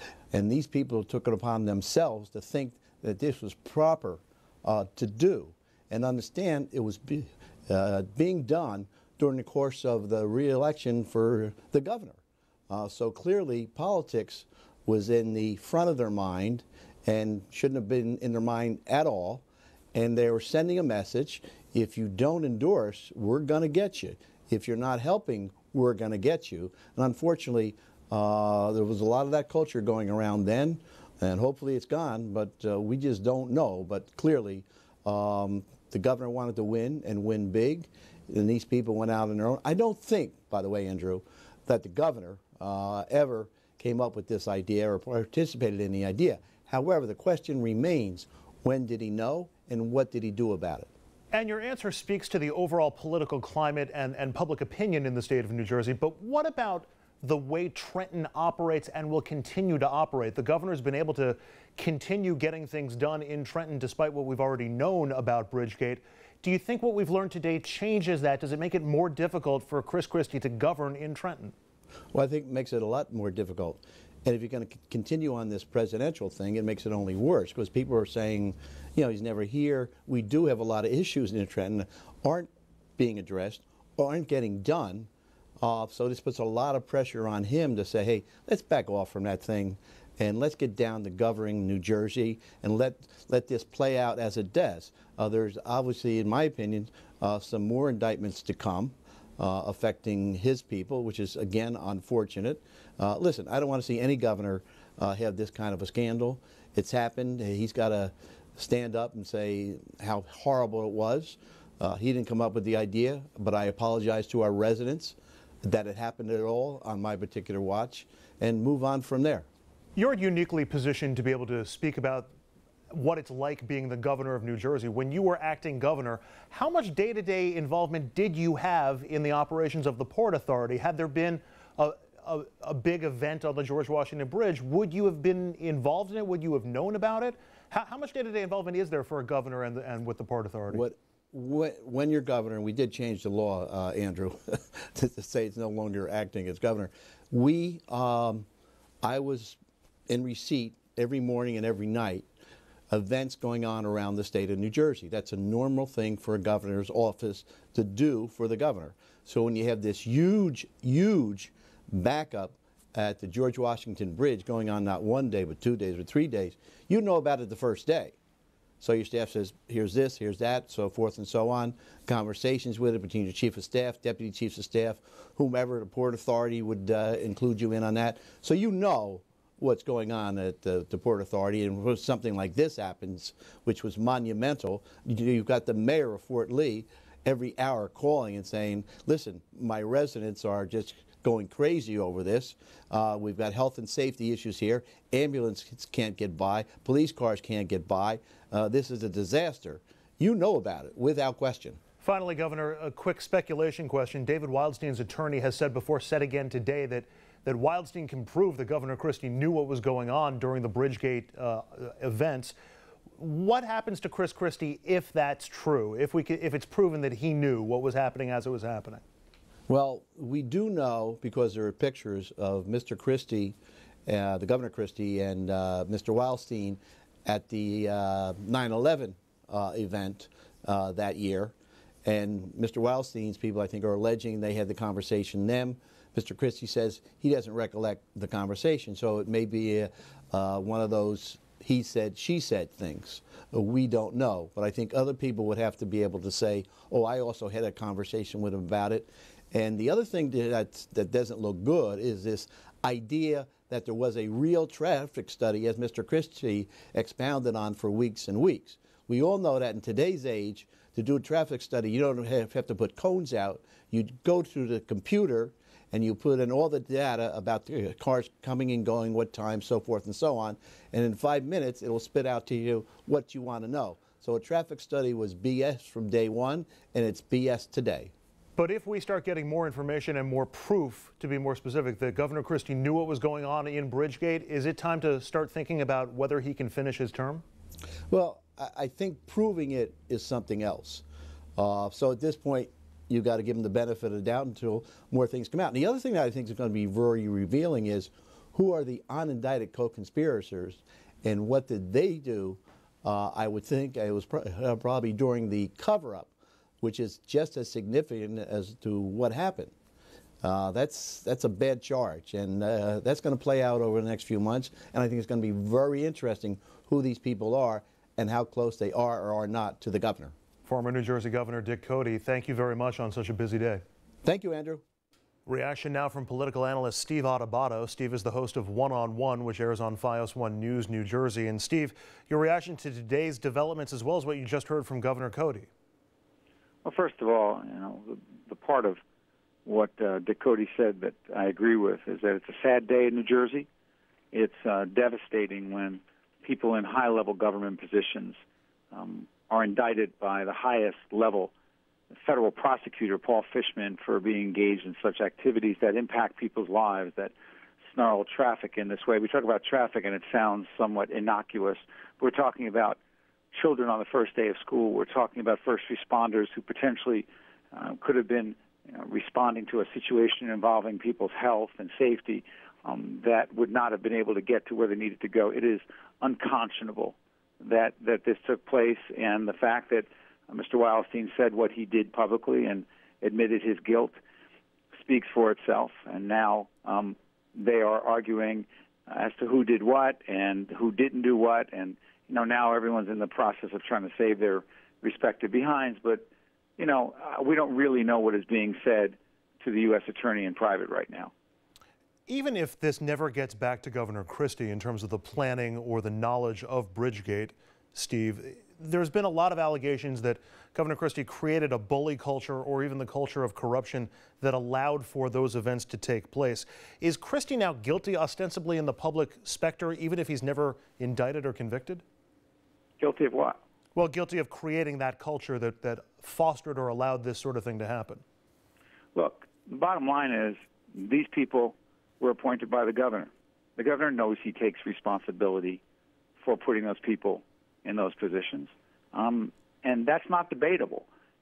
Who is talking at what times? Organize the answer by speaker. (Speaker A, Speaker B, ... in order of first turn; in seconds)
Speaker A: 0.3-50.9, 72.1-85.1, 85.6-119.5, 140.7-148.4, 149.0-149.6, 150.1-152.3, 152.9-168.2, 168.8-201.8, 219.7-223.5, 224.1-231.5, 232.0-278.1, 288.1-291.0, 291.6-309.7, 310.4-320.3, 324.2-324.8
Speaker B: 51.3-71.5, 120.0-122.3, 122.9-140.8, 202.0-212.6, 213.2-219.0, 278.6-287.4, 320.6-323.8, 325.4-335.7, 402.3-422.0, 423.9-428.2
Speaker C: 336.8-339.0, 339.6-343.7, 344.3-348.4, 348.9-351.5, 352.1-357.3, 357.9-363.0, 363.5-384.2, 385.0-401.3, 423.0-423.6, 429.1-435.8, 436.4-441.1